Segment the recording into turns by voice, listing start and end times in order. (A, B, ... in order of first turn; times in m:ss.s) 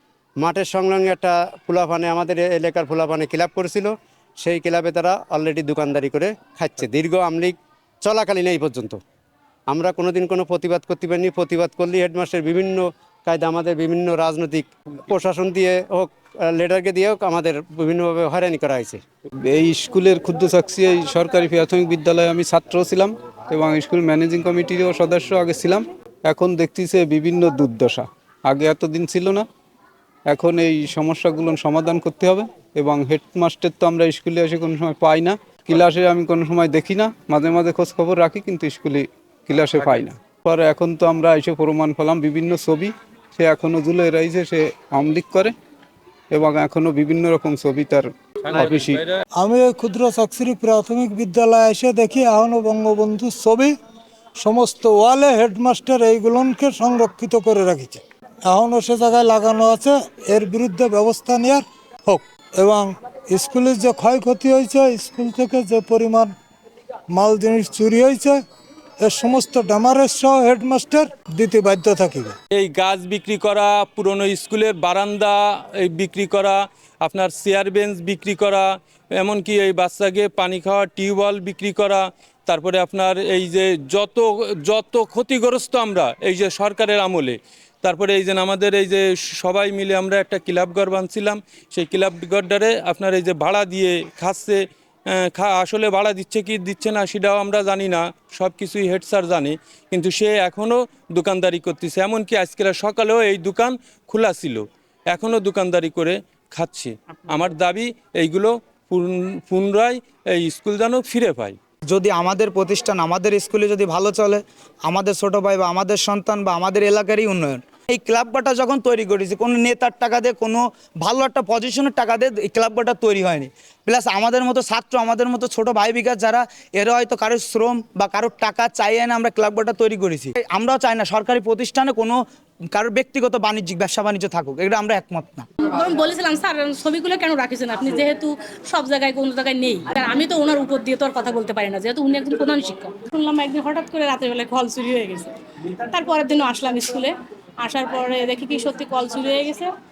0:00.4-0:09.0 A
0:09.7-0:19.0 A
0:19.4-0:29.5 B
0:30.2-0:45.5 B
0:46.3-0:49.0 B
0:49.3-0:53.8 C
0:54.4-1:06.3 C
1:07.1-1:08.4 C
1:09.0-1:12.4 C
1:12.5-1:51.6 D
1:51.9-2:12.2 E
2:12.7-2:15.4 E
2:15.6-2:25.3 F
2:25.9-2:29.7 F